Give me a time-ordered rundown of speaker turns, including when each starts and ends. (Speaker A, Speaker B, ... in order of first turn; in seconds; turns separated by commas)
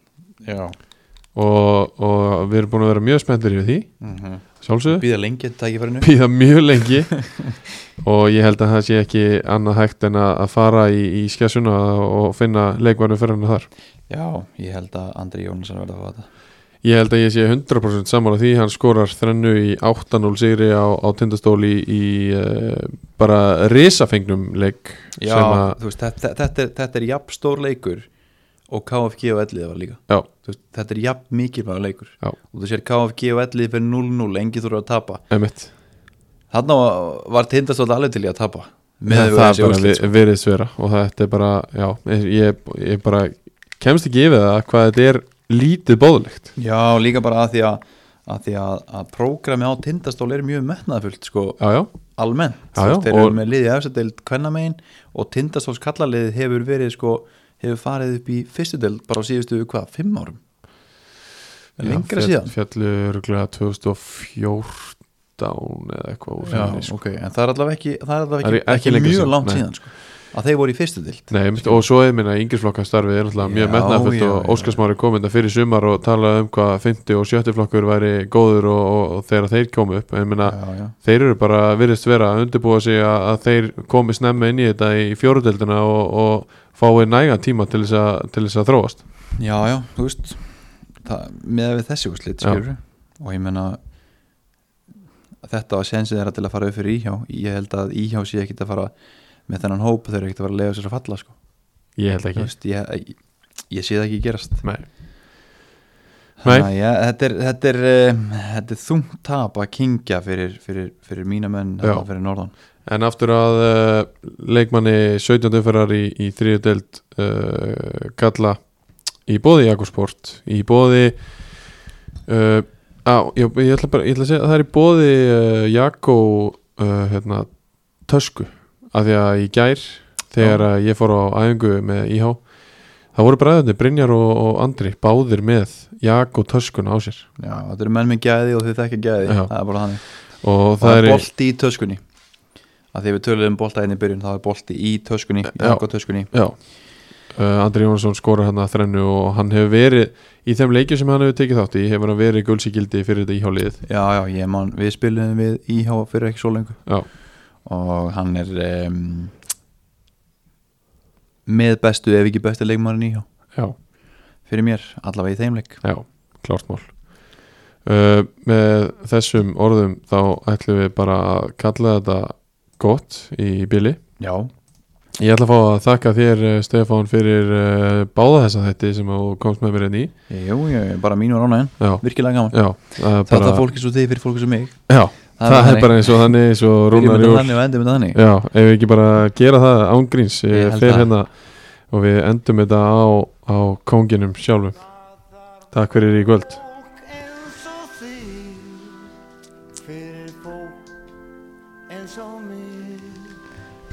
Speaker A: 0.4-0.8, Speaker B: 1.3-3.9, Speaker A: 4.0-6.1, Speaker B: 4.6-5.0, Speaker B: 6.0-7.2, Speaker A: 7.1-7.5, Speaker B: 8.0-13.7, Speaker A: 14.1-16.3, Speaker B: 16.8-25.8, Speaker A: 25.2-28.1, Speaker A: 28.7-35.2, Speaker B: 35.3-35.7, Speaker A: 36.5-40.1, Speaker B: 39.1-46.5, Speaker A: 46.5-51.6, Speaker B: 51.6-51.9, Speaker A: 52.1-60.4, Speaker B: 52.7-53.4, Speaker A: 61.8-62.5, Speaker B: 61.8-67.0, Speaker A: 66.4-71.8, Speaker B: 68.4-69.6, Speaker B: 71.3-89.0, Speaker A: 73.4-74.8, Speaker A: 80.4-80.9, Speaker A: 89.4-93.8, Speaker A: 95.4-98.9, Speaker A: 99.5-101.4, Speaker B: 102.0-102.5, Speaker A: 102.3-104.6, Speaker A: 106.4-112.5, Speaker B: 112.8-118.6, Speaker B: 119.2-121.2, Speaker B: 122.2-127.5, Speaker B: 128.0-132.4, Speaker A: 130.4-130.6, Speaker B: 133.1-137.3, Speaker A: 137.4-140.1, Speaker B: 139.2-139.5, Speaker B: 140.4-141.2, Speaker A: 140.8-142.0, Speaker A: 142.9-146.3, Speaker B: 145.5-146.6, Speaker B: 147.3-153.8, Speaker A: 153.8-156.9, Speaker A: 157.6-159.3, Speaker A: 161.4-163.2, Speaker A: 164.4-165.8, Speaker B: 165.8-167.0, Speaker B: 167.8-174.0, Speaker A: 174.2-174.5, Speaker B: 175.2-180.1, Speaker A: 180.3-182.6, Speaker B: 181.8-183.6, Speaker A: 183.2-186.3, Speaker B: 184.9-187.6, Speaker A: 186.9-188.2, Speaker B: 188.1-194.8, Speaker A: 190.5-191.1, Speaker C: 194.8-195.4, Speaker B: 195.7-196.6, Speaker C: 196.4-199.0, Speaker C: 199.8-200.8, Speaker C: 201.9-203.4